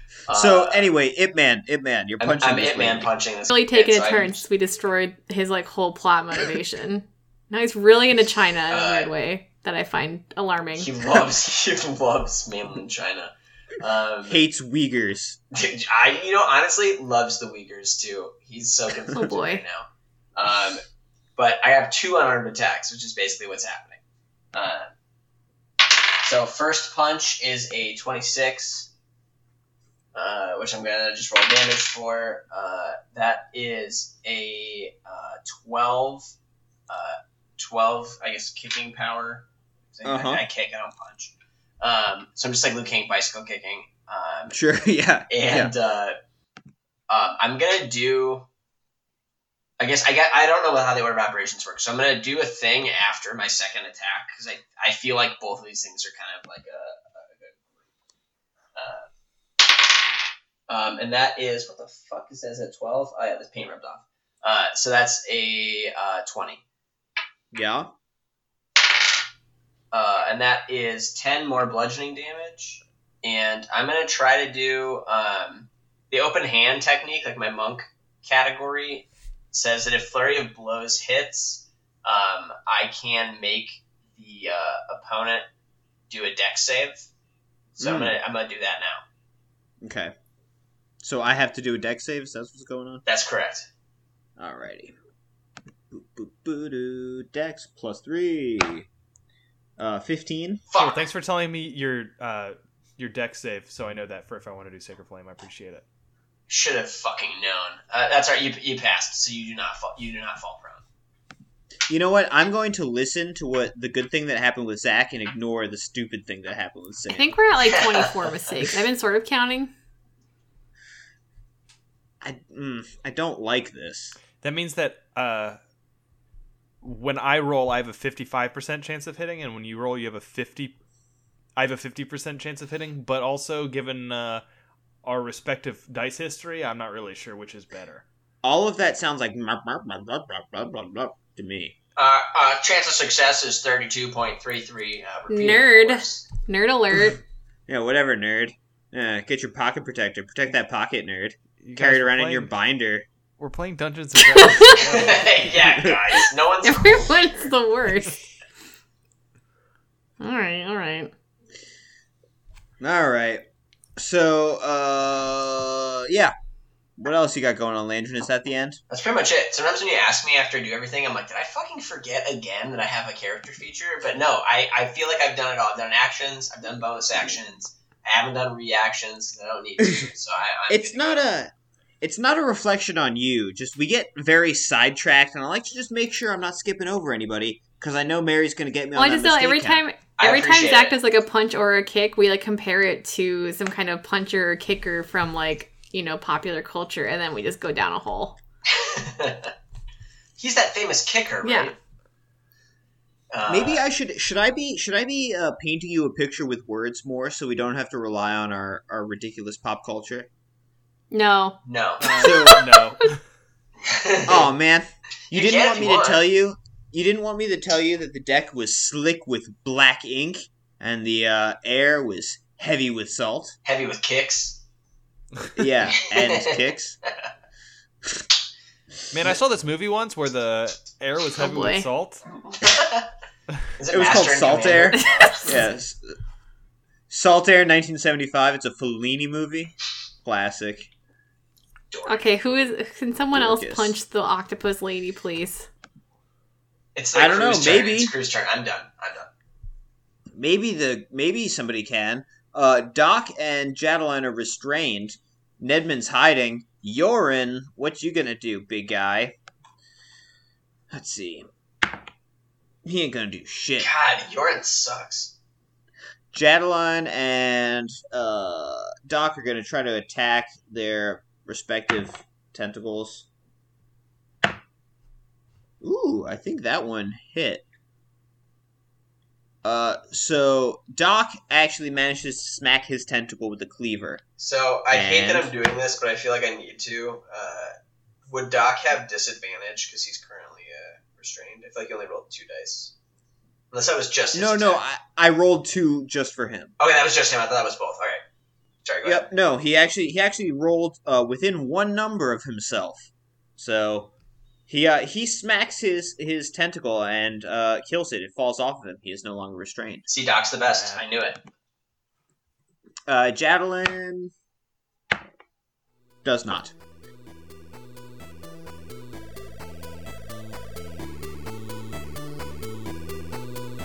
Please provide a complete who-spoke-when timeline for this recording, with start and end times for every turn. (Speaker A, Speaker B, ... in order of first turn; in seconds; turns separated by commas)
Speaker A: 0.3-0.9, Speaker B: 0.3-3.1, Speaker A: 2.2-4.4, Speaker C: 3.5-10.9, Speaker A: 8.7-9.1, Speaker A: 10.8-14.4, Speaker B: 14.2-15.4, Speaker A: 15.5-20.8, Speaker C: 19.1-19.6, Speaker A: 21.4-24.0, Speaker A: 24.5-24.9, Speaker A: 25.9-28.9, Speaker A: 30.1-36.3, Speaker A: 36.9-44.6, Speaker B: 40.0-40.4, Speaker B: 44.5-45.7, Speaker A: 45.3-46.2, Speaker A: 47.1-48.5, Speaker A: 49.8-57.6, Speaker A: 58.8-59.1, Speaker A: 60.7-66.6, Speaker B: 67.5-67.9, Speaker A: 69.9-85.5, Speaker A: 86.1-87.1, Speaker A: 87.8-89.0, Speaker B: 87.8-88.2, Speaker B: 89.8-90.1, Speaker B: 91.0-93.0, Speaker A: 93.1-93.7, Speaker B: 94.4-95.0, Speaker B: 95.9-98.9, Speaker B: 99.8-100.7, Speaker A: 100.7-101.1, Speaker D: 100.8-105.8, Speaker A: 106.5-110.8, Speaker B: 111.9-117.4, Speaker C: 117.1-119.7, Speaker A: 117.7-118.1, Speaker B: 122.2-124.2, Speaker D: 124.4-125.6, Speaker D: 126.8-130.8, Speaker D: 131.6-134.4, Speaker D: 135.0-138.1, Speaker B: 138.4-141.8, Speaker A: 142.0-146.2, Speaker C: 145.3-147.2, Speaker B: 147.7-153.1, Speaker D: 151.6-152.5, Speaker D: 153.4-155.5, Speaker C: 154.3-154.7, Speaker A: 154.7-157.4, Speaker C: 156.6-158.2, Speaker C: 160.2-161.1, Speaker B: 162.8-163.4, Speaker B: 164.0-166.3, Speaker B: 167.0-168.8, Speaker A: 168.9-181.3, Speaker B: 180.7-189.8, Speaker C: 189.0-198.4, Speaker A: 190.2-191.0, Speaker A: 198.7-199.5, Speaker A: 200.4-201.8, Speaker C: 201.4-201.7, Speaker A: 203.3-203.8, Speaker B: 203.5-210.3, Speaker C: 211.1-213.1, Speaker A: 211.7-212.1, Speaker D: 212.0-213.2, Speaker B: 212.2-212.6, Speaker A: 213.8-214.5, Speaker B: 214.3-223.6, Speaker A: 215.3-216.2, Speaker A: 223.7-224.6, Speaker B: 225.6-227.0, Speaker A: 226.0-226.7, Speaker D: 229.1-232.3, Speaker C: 231.4-231.9, Speaker A: 232.6-233.1, Speaker A: 233.8-235.6, Speaker B: 233.9-236.2, Speaker C: 235.0-235.5, Speaker B: 237.1-240.9, Speaker A: 241.9-242.3, Speaker C: 242.1-245.7, Speaker B: 243.3-244.0, Speaker A: 247.0-249.3, Speaker B: 247.1-248.1, Speaker B: 250.3-259.4, Speaker B: 260.9-261.5, Speaker B: 262.8-263.9, Speaker A: 263.8-265.3, Speaker B: 266.3-273.3, Speaker B: 275.8-277.7, Speaker B: 279.6-284.2, Speaker A: 284.4-287.7, Speaker B: 284.9-285.5, Speaker A: 288.3-292.9, Speaker A: 293.7-294.8, Speaker B: 294.3-296.7, Speaker A: 296.8-298.2, Speaker A: 298.9-299.3, Speaker B: 299.0-304.1, Speaker B: 304.7-310.1, Speaker A: 310.1-311.4, Speaker B: 313.1-314.3, Speaker B: 316.2-316.7